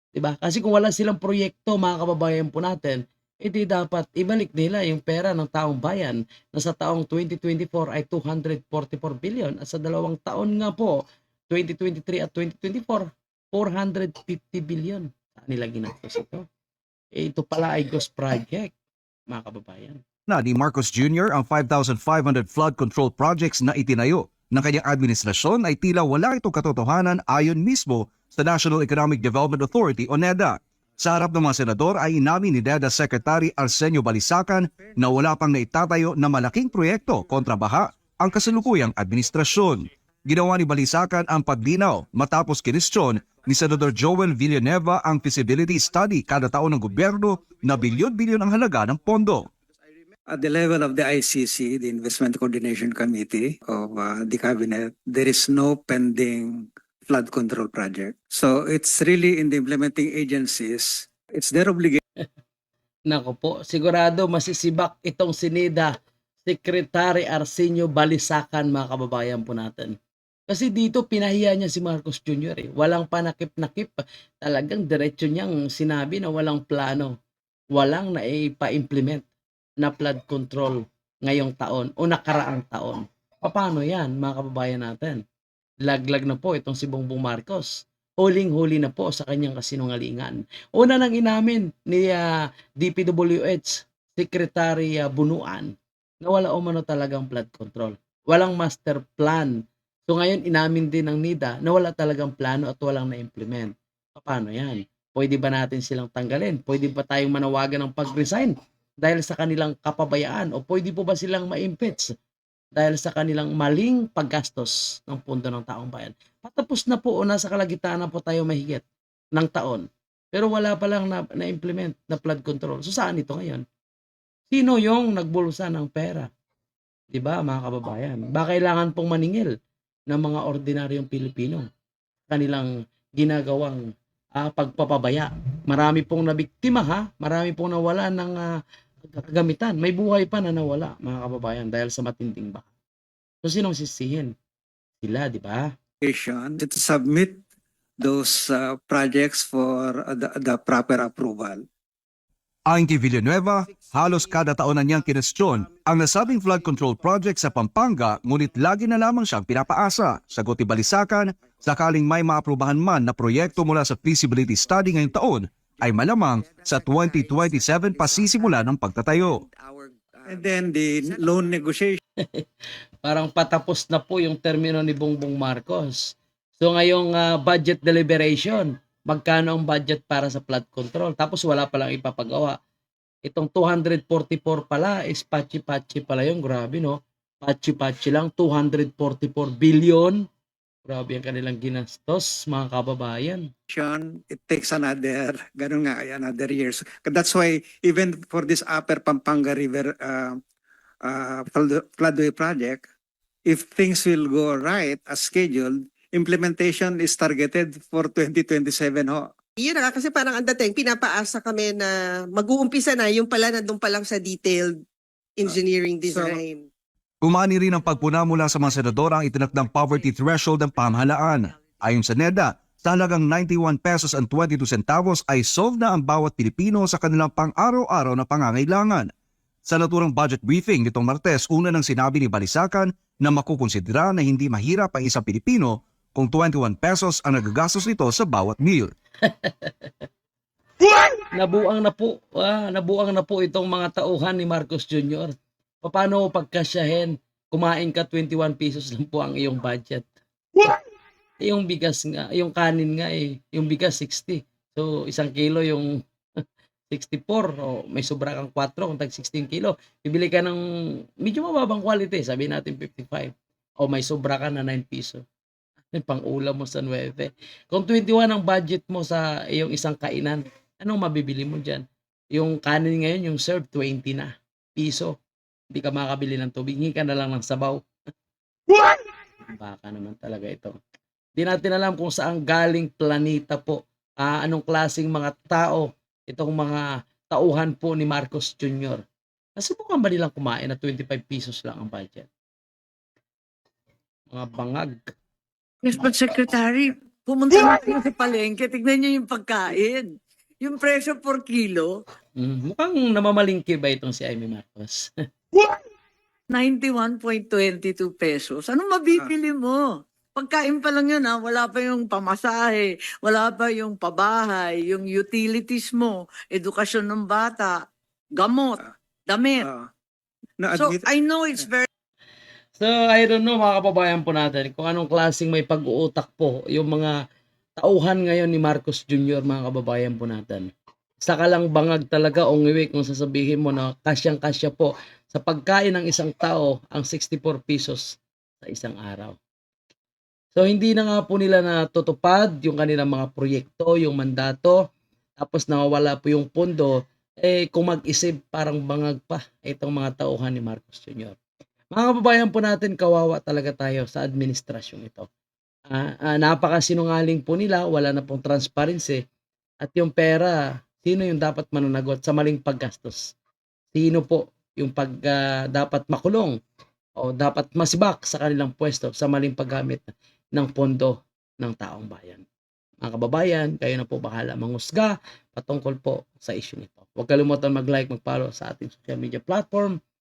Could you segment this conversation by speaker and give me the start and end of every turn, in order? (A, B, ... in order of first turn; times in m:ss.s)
0:00.2-0:16.4 A
0:17.2-0:18.7 A
0:19.3-0:20.0 A
0:20.3-0:49.4 B
0:50.3-1:02.0 C
1:03.1-1:05.9 A
1:06.4-1:10.0 A
1:10.5-1:17.1 A
1:17.8-1:19.3 A
1:19.8-1:25.2 A
1:25.8-1:32.3 A
1:32.8-1:39.5 A
1:40.1-1:52.1 A
1:52.8-1:58.8 A
1:59.4-2:03.6 A
2:04.5-2:06.3 A
2:07.1-2:09.5 A
2:10.1-2:11.7 A
2:12.3-2:13.8 A
2:14.4-2:18.5 A
2:19.0-2:22.7 A
2:23.4-2:24.3 A
2:25.0-2:25.7 A
2:26.0-2:27.4 C
2:28.0-2:31.6 C
2:32.7-2:49.4 B
2:46.8-2:48.4 D
2:49.5-2:51.2 D
2:50.3-2:52.0 C
2:53.0-3:02.6 A
3:03.2-3:10.2 A
3:10.9-3:13.5 A
3:13.7-3:20.4 C
3:21.0-3:22.8 C
3:23.5-3:29.3 C
3:29.6-3:34.8 D
3:35.4-3:36.7 D
3:36.1-3:36.4 C
3:37.2-3:49.1 B
3:38.6-3:38.9 E
3:49.6-3:58.9 B
3:59.2-3:59.9 A
4:01.3-4:05.3 A
4:05.8-4:10.8 A
4:11.4-4:15.9 A
4:16.9-4:20.6 A
4:21.2-4:25.2 A
4:26.0-4:35.2 A
4:35.7-4:37.8 A
4:38.7-4:40.8 A
4:41.4-4:49.0 A
4:49.6-4:52.3 A
4:54.3-4:55.1 A
4:55.8-5:02.0 E
5:02.4-5:05.1 A
5:06.5-5:17.9 E
5:18.4-5:19.6 E
5:19.6-5:19.9 C
5:20.6-5:21.0 C
5:20.7-5:21.9 E
5:22.8-5:27.2 A
5:27.8-5:30.7 A
5:31.2-5:39.4 A
5:40.6-5:44.8 A
5:45.4-5:51.4 A
5:51.9-5:55.3 A
5:55.9-5:59.2 A
5:59.8-6:03.3 A
6:03.9-6:06.6 A
6:07.2-6:12.4 A
6:13.0-6:20.0 A